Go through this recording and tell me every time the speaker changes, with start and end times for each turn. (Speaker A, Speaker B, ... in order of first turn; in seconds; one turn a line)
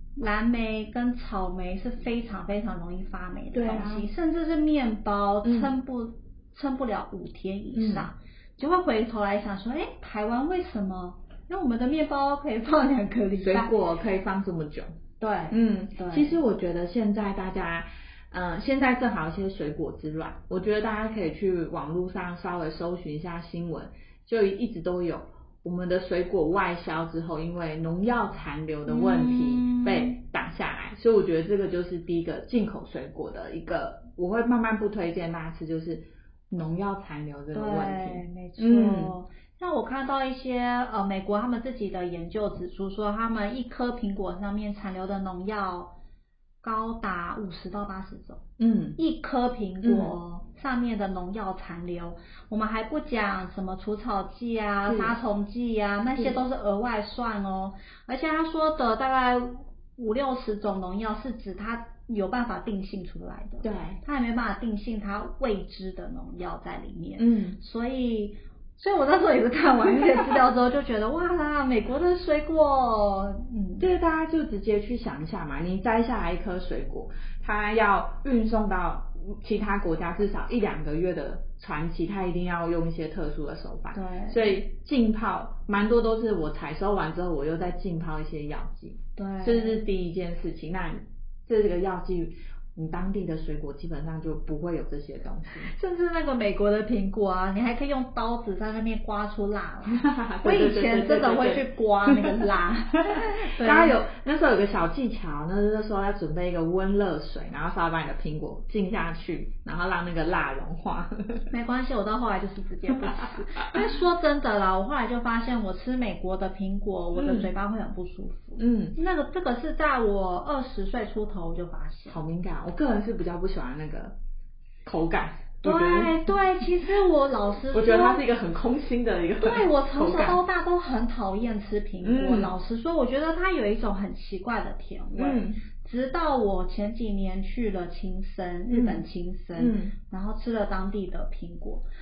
Speaker A: 0.2-13.7
Speaker B: 3.5-4.1
Speaker B: 5.4-5.7
Speaker B: 7.7-8.1
Speaker B: 13.4-14.9
Speaker A: 15.2-16.4
Speaker B: 15.5-39.1
Speaker A: 28.9-30.2
Speaker A: 37.5-45.9
Speaker A: 46.6-48.4
Speaker B: 48.6-49.0
Speaker A: 49.0-73.9
Speaker B: 49.8-50.1
Speaker B: 54.9-55.2
Speaker B: 63.6-64.0
Speaker B: 67.2-67.6
Speaker B: 73.8-95.7
Speaker A: 83.9-84.4
Speaker A: 89.2-89.8
Speaker A: 95.7-104.0
Speaker B: 99.9-102.3
Speaker B: 103.6-111.5
Speaker A: 111.5-122.2
Speaker B: 113.2-113.8
Speaker B: 117.2-117.5
Speaker B: 118.6-119.0
Speaker B: 122.1-124.2
Speaker B: 124.8-126.3
Speaker A: 125.6-128.2
Speaker B: 127.7-130.4
Speaker A: 129.4-141.8
Speaker B: 132.0-132.5
Speaker B: 135.2-135.6
Speaker B: 138.7-139.9